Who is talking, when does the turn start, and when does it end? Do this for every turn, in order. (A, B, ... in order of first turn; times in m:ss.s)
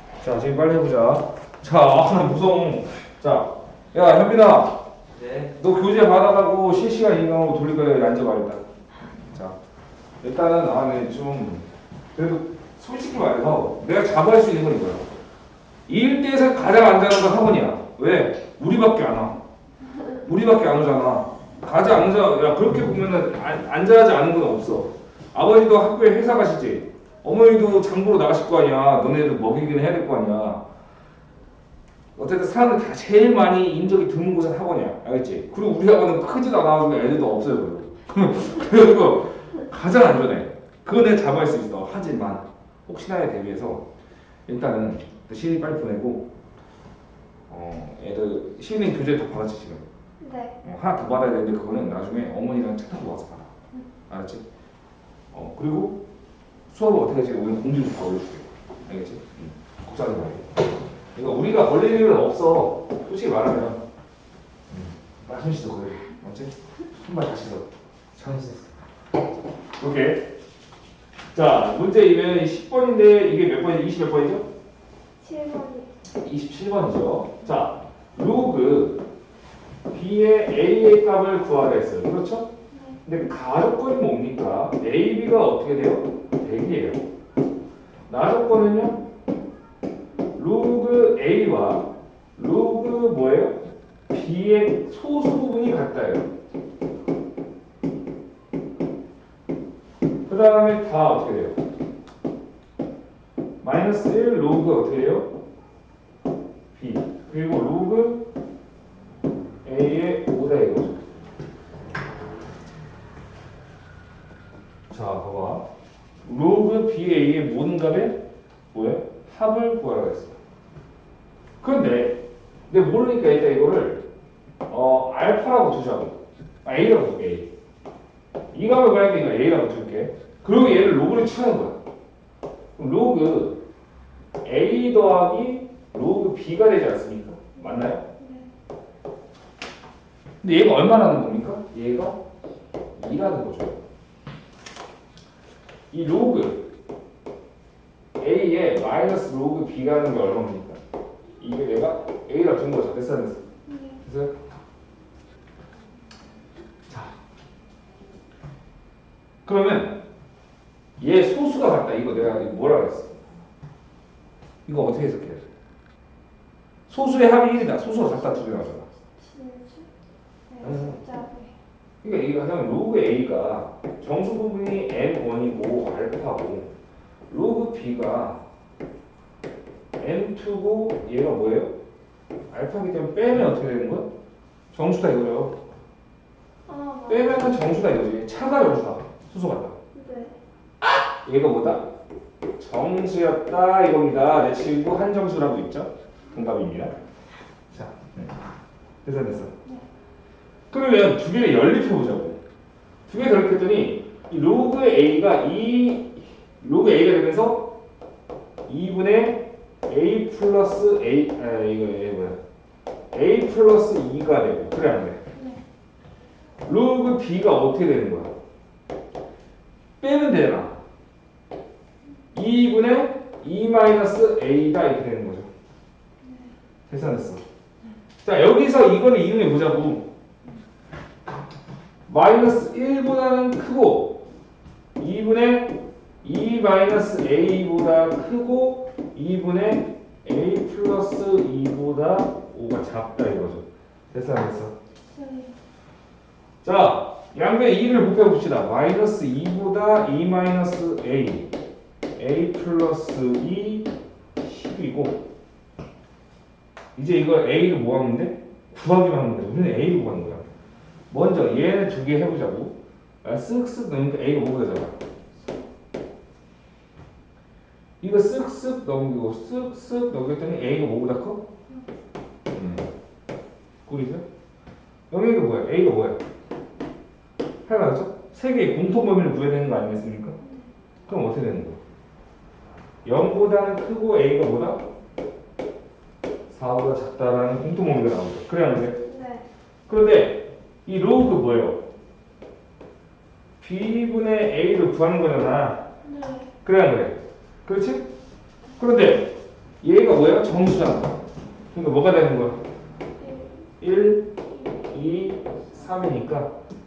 0:00.2-0:04.8 A
0:05.3-0:08.6 A
0:09.2-0:09.6 A
0:10.2-0:15.0 A
0:15.9-0:19.4 A
0:20.1-0:30.6 A
0:32.1-0:43.8 A
0:44.5-0:46.3 A
0:47.5-0:49.8 A
0:50.2-0:50.6 B
0:50.6-0:53.5 A
0:54.1-0:54.4 A
0:55.3-0:56.0 A
0:56.7-1:00.6 A
1:01.1-1:03.8 A
1:04.7-1:08.6 A
1:09.8-1:10.3 A
1:11.3-1:14.5 A
1:15.2-1:15.9 B
1:16.1-1:19.0 A
1:19.9-1:22.5 A
1:22.7-1:23.0 B
1:23.0-1:27.0 A
1:28.1-1:29.0 A
1:30.3-1:36.3 A
1:40.3-1:41.6 A
1:43.6-1:45.3 A
1:46.7-1:48.2 A
1:49.6-1:51.0 A
1:54.9-1:55.6 A
1:56.2-1:58.2 A
1:58.7-2:00.4 A
2:01.6-2:04.0 A
2:04.7-2:07.5 A
2:08.5-2:11.8 A
2:12.8-2:13.6 A
2:14.4-2:18.0 A
2:18.2-2:18.5 B
2:20.4-2:22.2 A
2:23.0-2:23.8 A
2:25.9-2:26.7 A
2:28.2-2:30.8 A
2:31.4-2:33.4 A
2:33.7-2:34.0 B
2:34.0-2:34.3 A
2:39.4-2:40.0 A
2:41.0-2:43.2 A
2:44.6-2:45.4 A
2:46.9-2:48.8 A
2:49.1-2:49.9 B
2:50.5-2:51.5 B
2:50.6-2:51.0 A
2:52.0-2:56.7 A
2:57.3-2:58.4 A
3:00.0-3:01.7 A
3:02.5-3:04.1 A
3:04.7-3:05.6 A
3:06.7-3:07.5 B
3:07.1-3:09.7 A
3:09.9-3:10.4 B
3:10.8-3:11.9 A
3:12.6-3:16.9 A
3:17.7-3:18.4 A
3:19.0-3:19.5 A
3:20.7-3:22.4 A
3:23.1-3:27.7 A
3:28.7-3:32.4 A
3:33.1-3:35.2 A
3:35.3-3:35.6 B
3:36.6-3:38.3 A
3:40.0-3:40.8 A
3:42.3-3:45.5 A
3:46.2-3:46.5 B
3:46.9-3:47.4 A
3:48.2-3:50.0 A
3:52.1-3:54.2 A
3:55.0-4:04.7 A
4:05.1-4:05.5 B
4:06.6-4:11.5 A
4:12.2-4:15.2 A
4:17.0-4:20.4 A
4:21.1-4:25.0 A
4:28.0-4:31.4 A
4:32.5-4:32.9 A
4:33.8-4:34.2 A
4:35.1-4:36.2 A
4:37.6-4:40.4 A
4:40.4-4:40.7 B
4:41.1-4:41.8 A
4:43.0-4:44.8 A
4:46.5-4:49.0 A
4:49.0-4:49.5 B
4:49.9-4:51.8 A
4:53.6-4:55.8 A
4:56.0-4:56.5 B
4:56.6-4:58.1 A
4:58.8-5:01.2 A
5:01.7-5:02.6 A
5:03.2-5:03.6 B
5:03.8-5:06.5 A